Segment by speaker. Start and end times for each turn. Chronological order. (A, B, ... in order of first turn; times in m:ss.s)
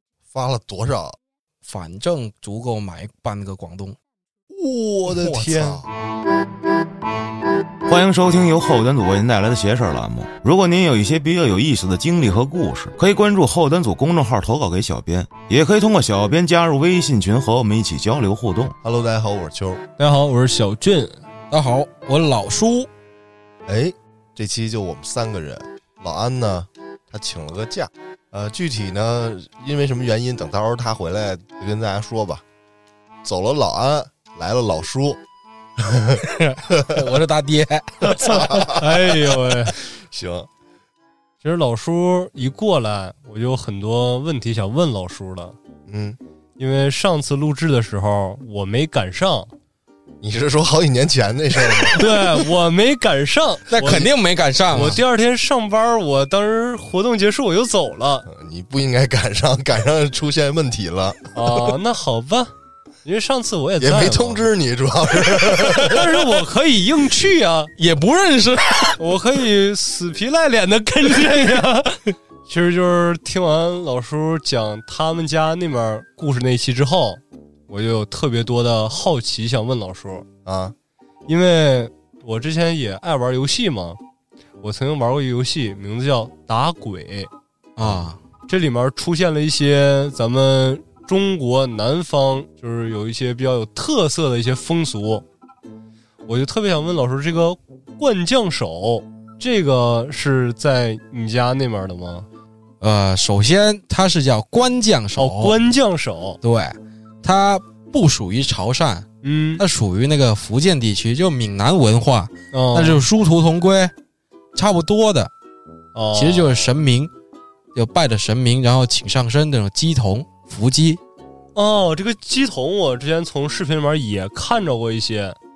0:00.3-0:01.2 A
0:01.6-0:04.0 B
0:04.5-0:05.9 A
0:05.0-0:05.8 C
0:07.8-0:18.7 D
0:18.8-0:19.8 A
0:20.0-0:21.2 C
0:21.5-0:22.9 B
0:23.7-0:32.4 A
0:33.2-0:35.2 A
0:35.8-0:36.2 A
0:36.2-0:38.7 B
0:38.0-0:38.8 A
0:38.7-0:39.7 C
0:39.7-0:40.5 A
0:41.4-0:45.6 C
0:45.9-0:46.2 A
0:46.6-0:49.5 C
0:50.2-0:52.1 A
0:52.0-0:54.1 C
0:53.7-0:55.0 B
0:54.7-0:58.2 C
0:54.7-0:55.0 A
0:58.3-1:01.3 A
1:01.3-1:02.5 C
1:03.0-1:04.4 C
1:03.8-1:06.1 A
1:05.7-1:07.7 C
1:07.8-1:09.0 B
1:09.0-1:20.2 C
1:20.4-1:20.8 A
1:21.3-1:24.0 C
1:24.6-1:27.3 C
1:27.8-1:28.2 B
1:28.5-1:35.2 C
1:36.2-1:42.3 C
1:42.8-1:45.6 B
1:45.2-1:46.4 C
1:46.4-1:53.9 B
1:49.2-1:49.6 C
1:52.5-1:53.0 C
1:54.6-1:55.3 B
1:55.9-1:56.8 C
1:56.1-1:57.1 B
1:57.8-2:01.0 B
2:01.6-2:05.4 C